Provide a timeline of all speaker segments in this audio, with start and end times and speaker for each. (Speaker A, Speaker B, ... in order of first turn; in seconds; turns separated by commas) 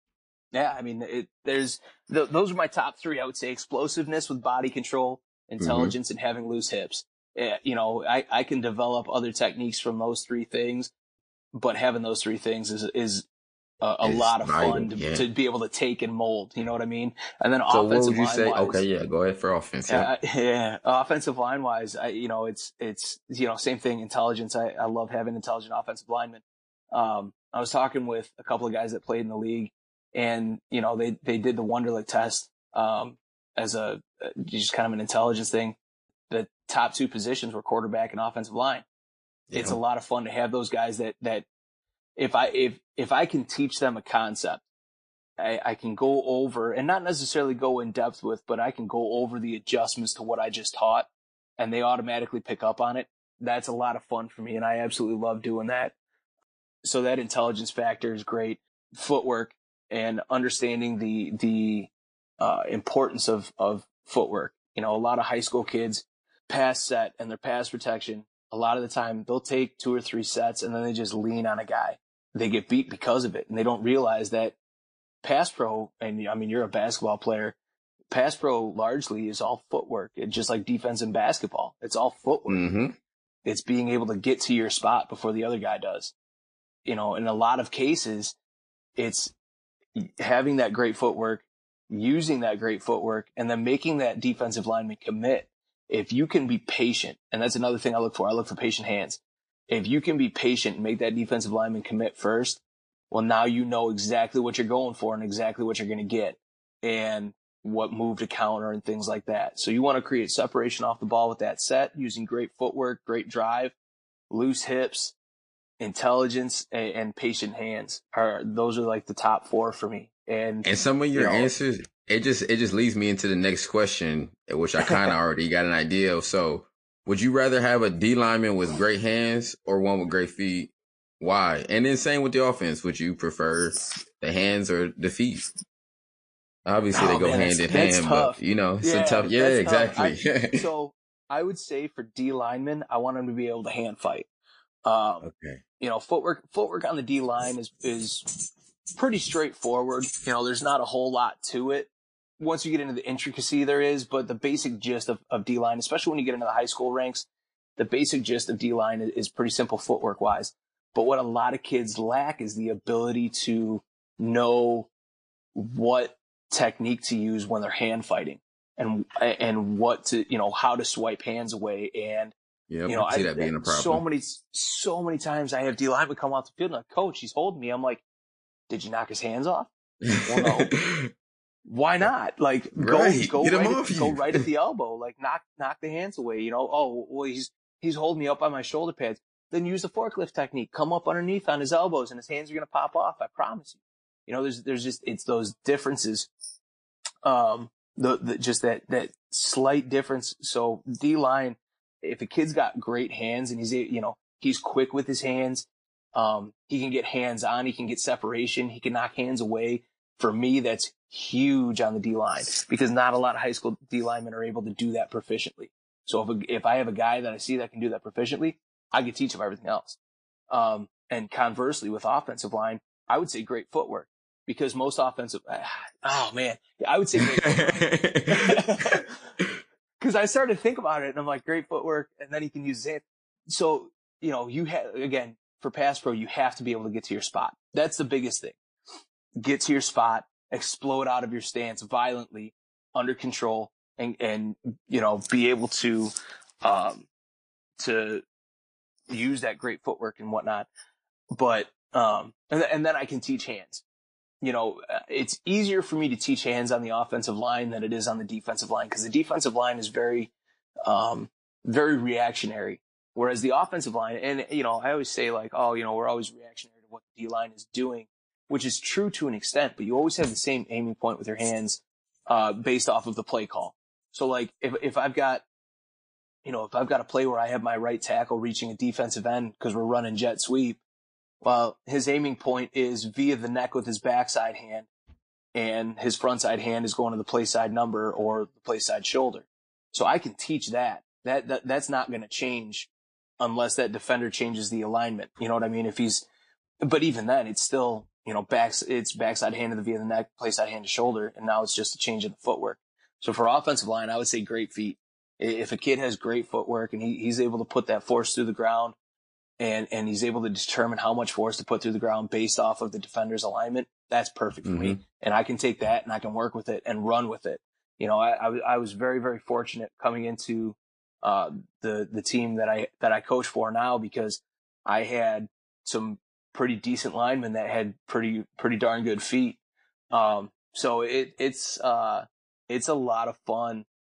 Speaker A: 0.5-10.9, Speaker B: 5.6-5.9, Speaker A: 11.5-13.2, Speaker A: 13.8-18.8, Speaker B: 14.0-15.2, Speaker B: 17.7-20.1, Speaker A: 19.9-35.8, Speaker A: 36.3-38.9, Speaker B: 39.5-39.8, Speaker A: 39.5-41.5, Speaker A: 42.2-44.6, Speaker A: 45.4-55.9, Speaker A: 56.8-74.5, Speaker A: 75.2-77.5, Speaker A: 78.1-82.7, Speaker B: 82.5-83.0, Speaker A: 83.4-86.1, Speaker A: 86.8-88.4, Speaker A: 89.0-89.3, Speaker A: 89.9-113.7, Speaker A: 114.3-115.2, Speaker A: 115.8-121.5, Speaker B: 120.6-135.5, Speaker A: 124.8-125.1, Speaker B: 136.7-140.7, Speaker A: 136.9-144.3, Speaker A: 144.8-145.2, Speaker B: 145.2-145.6, Speaker A: 145.8-148.2, Speaker A: 148.9-157.2, Speaker A: 157.8-164.9, Speaker A: 165.6-172.3, Speaker B: 172.7-174.0, Speaker A: 172.9-178.0, Speaker A: 178.7-179.7, Speaker B: 180.1-181.1, Speaker A: 180.2-180.7, Speaker A: 181.7-196.3, Speaker B: 182.7-184.4, Speaker A: 197.2-220.0, Speaker A: 220.5-229.2, Speaker B: 227.4-228.6, Speaker A: 230.0-238.6, Speaker A: 239.4-246.1, Speaker A: 246.6-247.1, Speaker A: 247.8-248.2, Speaker A: 249.1-250.7, Speaker A: 251.3-253.8, Speaker A: 254.4-260.3, Speaker A: 260.9-275.4, Speaker A: 276.4-280.8, Speaker A: 281.4-284.9, Speaker A: 285.6-296.2, Speaker A: 296.8-308.9, Speaker A: 309.6-329.6, Speaker B: 314.6-315.0, Speaker A: 330.1-333.9